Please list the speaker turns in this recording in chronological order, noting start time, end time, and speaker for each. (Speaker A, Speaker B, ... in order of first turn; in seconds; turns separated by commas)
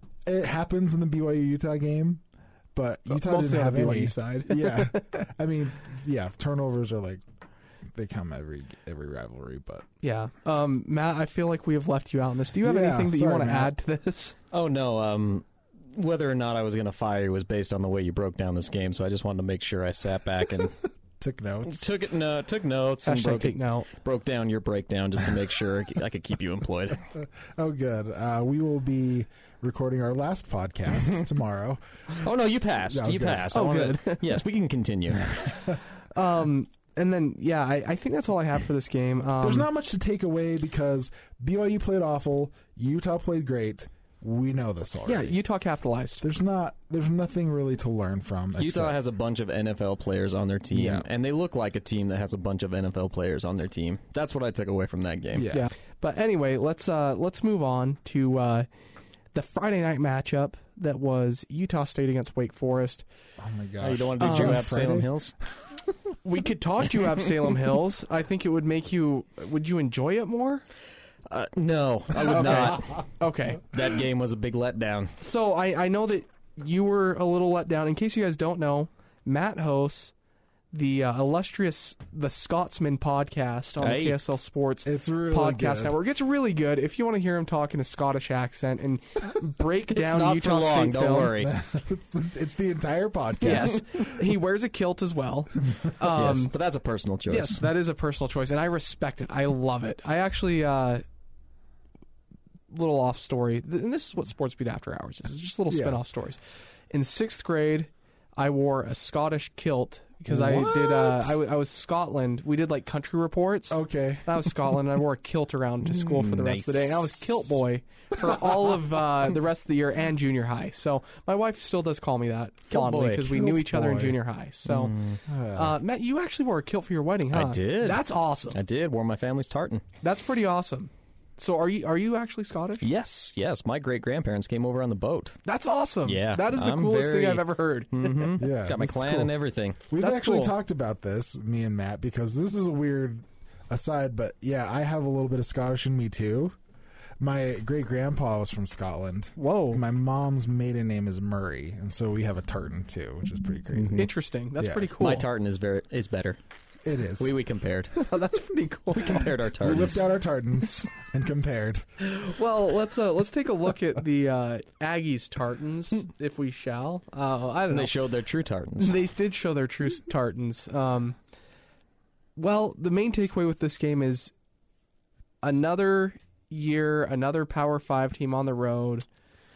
Speaker A: 0.2-2.2, Speaker A: 2.7-7.2, Speaker B: 3.1-5.2, Speaker A: 7.9-9.8, Speaker B: 10.0-14.3, Speaker A: 12.6-13.7, Speaker C: 14.5-20.8, Speaker A: 21.2-21.9, Speaker C: 21.6-27.0, Speaker B: 23.0-23.9, Speaker A: 27.2-31.8, Speaker C: 32.2-35.6, Speaker A: 32.9-33.5, Speaker B: 33.5-34.4, Speaker A: 35.1-35.8, Speaker B: 36.1-39.7, Speaker A: 39.4-45.3, Speaker B: 45.0-46.2, Speaker A: 46.2-49.0, Speaker C: 48.6-55.5, Speaker A: 50.7-51.1, Speaker A: 55.3-55.7, Speaker B: 55.5-58.7, Speaker B: 59.3-63.0, Speaker A: 63.4-65.8, Speaker C: 63.8-65.3, Speaker B: 64.2-64.7, Speaker B: 66.2-70.6, Speaker C: 71.3-73.0, Speaker A: 72.2-72.9, Speaker B: 72.2-73.7, Speaker C: 73.7-75.1, Speaker B: 75.2-80.1, Speaker B: 80.7-91.3, Speaker C: 83.8-84.2, Speaker A: 84.8-86.0, Speaker C: 89.9-91.5, Speaker A: 91.4-94.0, Speaker B: 93.4-96.5, Speaker C: 93.4-93.8, Speaker C: 96.1-97.6, Speaker B: 97.3-101.0, Speaker B: 102.7-106.4, Speaker A: 105.7-106.0, Speaker B: 106.9-124.9, Speaker A: 110.3-111.4, Speaker A: 113.7-114.5, Speaker C: 115.8-117.5, Speaker A: 118.2-118.6, Speaker C: 122.7-123.3, Speaker A: 123.3-124.2, Speaker C: 124.7-125.2, Speaker A: 125.3-125.8, Speaker B: 125.5-128.6, Speaker C: 127.3-129.8, Speaker B: 130.0-132.9, Speaker C: 132.8-135.4, Speaker B: 135.4-138.4, Speaker C: 136.0-139.8, Speaker A: 138.4-139.3, Speaker A: 139.9-146.6, Speaker B: 140.0-140.5, Speaker A: 147.2-154.9, Speaker B: 149.4-149.8, Speaker C: 153.7-154.1, Speaker B: 153.9-155.2, Speaker C: 155.0-156.4, Speaker A: 156.8-157.3, Speaker C: 157.2-158.1, Speaker B: 158.1-159.3, Speaker C: 159.0-160.0, Speaker A: 159.6-161.8, Speaker B: 162.0-167.9, Speaker C: 167.7-169.0, Speaker B: 168.8-171.2, Speaker B: 172.3-174.3, Speaker B: 175.4-179.1